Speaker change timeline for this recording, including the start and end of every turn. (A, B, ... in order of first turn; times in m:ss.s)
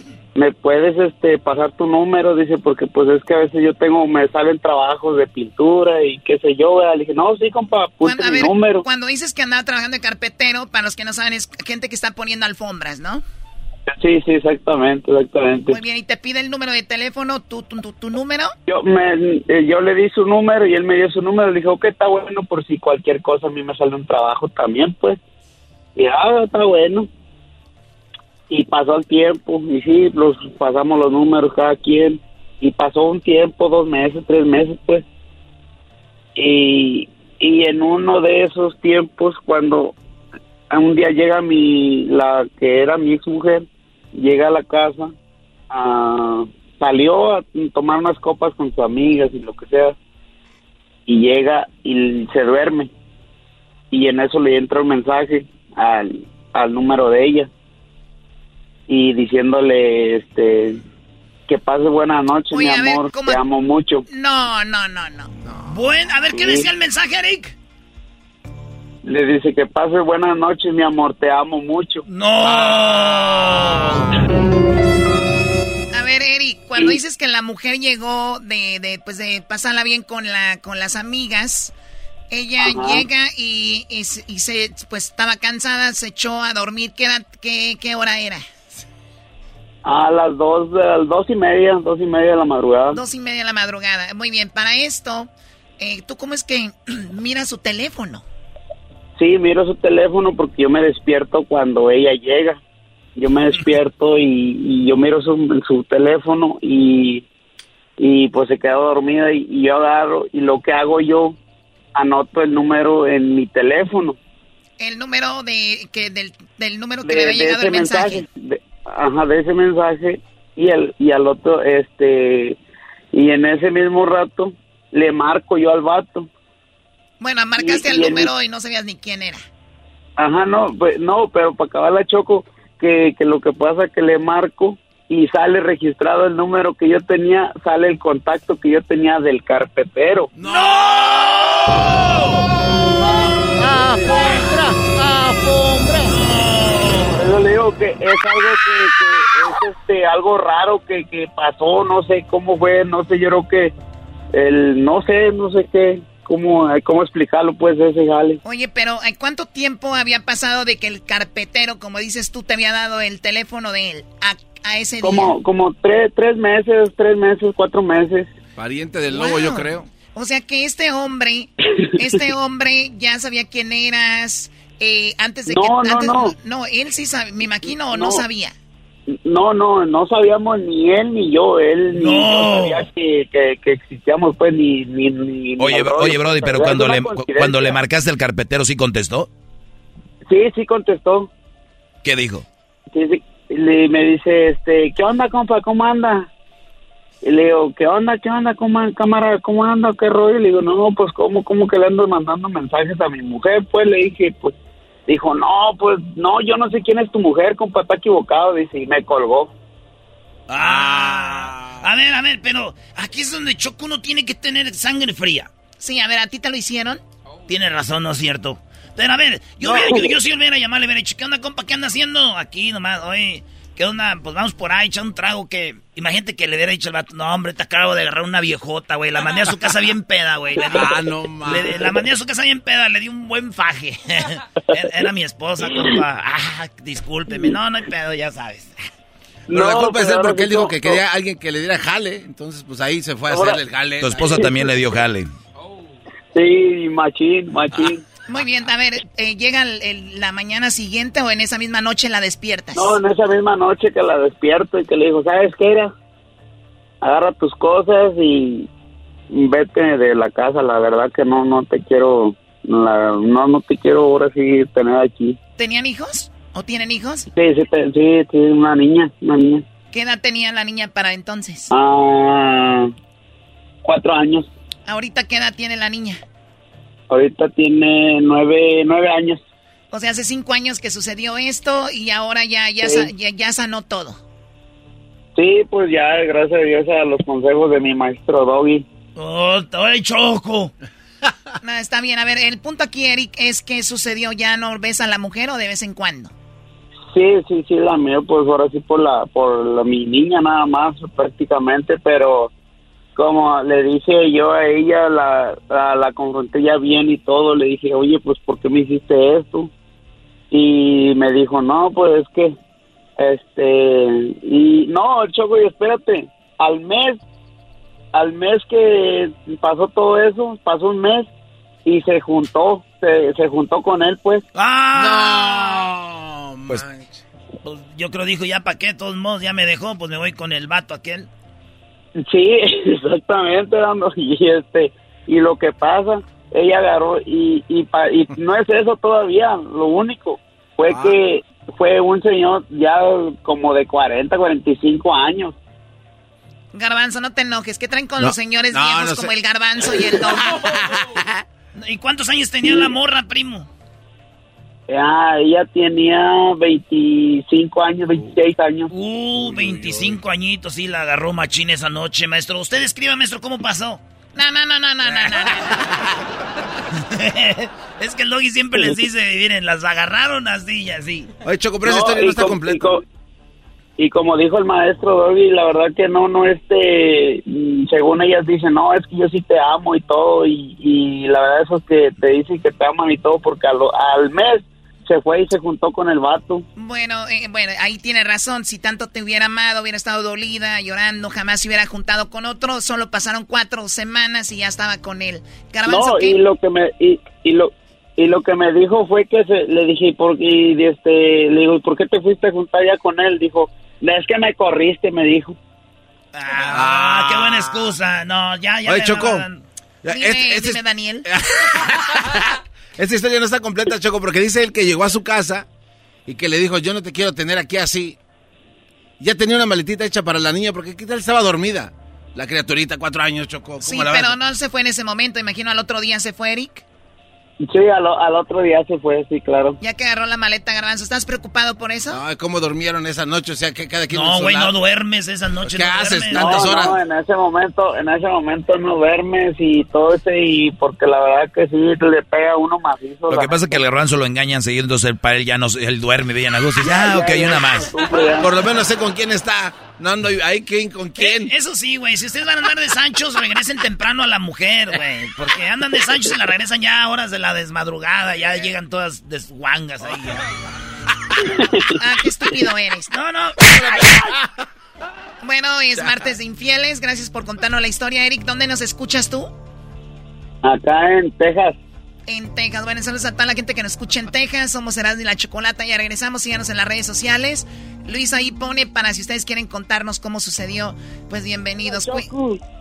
0:00.4-0:08.8 A
0:08.0-0:13.2 B
0:14.0-0:15.8 A
0:15.7-0:18.5 B
0:18.7-0:25.2 A
0:26.0-0:27.1 A
0:28.5-0:35.0 A
0:36.4-0:39.9 A
0:40.7-0:45.1 A
0:45.7-0:49.9 A
0:51.1-0:52.9 A
0:53.9-0:57.5 A
0:58.9-1:00.8 A
1:01.5-1:04.0 A
1:02.5-1:03.4 B
1:04.1-1:05.3 B
1:05.6-1:07.5 C
1:06.4-1:06.6 A
1:09.0-1:12.0 A
1:12.1-1:14.2 C
1:12.4-1:14.1 D
1:15.9-1:21.7 B
1:22.3-1:28.4 B
1:22.6-1:23.0 A
1:29.8-1:33.0 A
1:32.9-1:38.2 B
1:39.2-1:42.6 A
1:43.2-1:47.2 A
1:48.0-1:51.4 A
1:51.9-1:54.2 A
1:54.8-1:58.2 B
1:57.0-2:02.6 A
2:03.1-2:06.3 A
2:07.2-2:09.4 B
2:07.6-2:08.3 A
2:10.2-2:20.3 A
2:20.4-2:22.4 D
2:20.4-2:22.3 C
2:23.6-2:26.1 E
2:26.0-2:27.2 C
2:27.2-2:33.7 A
2:34.3-2:38.4 A
2:38.4-2:45.3 B
2:45.0-2:48.3 A
2:48.6-2:49.9 D
2:49.1-2:58.5 B
2:55.5-2:56.3 A
2:57.6-2:58.2 A
2:59.1-3:07.8 A
3:01.9-3:02.8 C
3:05.6-3:09.3 F
3:10.3-3:11.3 A
3:12.0-3:12.4 F
3:12.9-3:16.3 A
3:17.2-3:24.5 A
3:25.1-3:29.5 A
3:30.5-3:35.5 C
3:30.5-3:31.8 D
3:35.8-3:37.0 B
3:37.5-3:58.7 C
3:50.7-3:51.8 D
3:59.5-4:01.0 A
3:59.5-4:04.3 D
4:03.3-4:03.6 A
4:04.0-4:05.3 F
4:04.2-4:04.7 A
4:06.3-4:08.0 A
4:08.3-4:12.9 B
4:12.7-4:15.9 A
4:17.0-4:18.7 A
4:19.3-4:25.4 A
4:25.6-4:27.2 B
4:27.3-4:29.6 A
4:29.9-4:31.7 B
4:31.7-4:32.9 A
4:33.8-4:34.5 A
4:34.9-4:36.2 B
4:37.1-4:39.4 A
4:39.9-4:44.2 B
4:42.8-4:43.1 A
4:45.4-4:48.8 A
4:49.2-4:50.7 C
4:51.6-4:56.3 B
4:57.1-5:02.5 A
5:03.2-5:09.7 A
5:10.5-5:12.5 A
5:13.2-5:17.2 A
5:18.1-5:21.3 A
5:21.8-5:24.4 A
5:24.5-5:25.9 C
5:24.9-5:27.2 D
5:27.6-5:31.3 C
5:32.2-5:45.5 A
5:40.9-5:41.2 D
5:46.7-5:50.6 B
5:48.2-5:51.3 D
5:51.7-5:53.7 C
5:54.9-5:58.9 A
5:58.9-6:04.0 C
5:59.4-6:00.2 D
6:04.3-6:05.8 B
6:05.2-6:06.1 D
6:07.0-6:11.3 C
6:11.4-6:13.0 D
6:11.8-6:13.0 A
6:14.0-6:26.6 A
6:26.8-6:36.4 B
6:35.8-6:45.6 A
6:46.3-6:49.6 C
6:46.7-6:48.0 D
6:48.8-6:49.4 D
6:50.0-6:55.6 D
6:50.1-6:51.3 B
6:56.3-6:58.2 D
6:59.2-7:04.4 D
7:03.8-7:06.8 B
7:07.6-7:09.8 A
7:09.8-7:12.2 B
7:12.1-7:14.7 D
7:14.1-7:16.9 C
7:15.7-7:17.0 D
7:16.3-7:23.6 A
7:23.3-7:28.0 F
7:26.8-7:28.6 A
7:28.4-7:31.5 D
7:31.2-7:40.4 C
7:41.5-7:41.8 A
7:42.0-7:43.1 B
7:43.1-7:44.1 C
7:43.6-7:44.3 D
7:45.4-7:49.5 B
7:46.0-7:46.2 D
7:50.6-7:51.8 A
7:52.3-8:02.3 B
8:01.9-8:02.6 A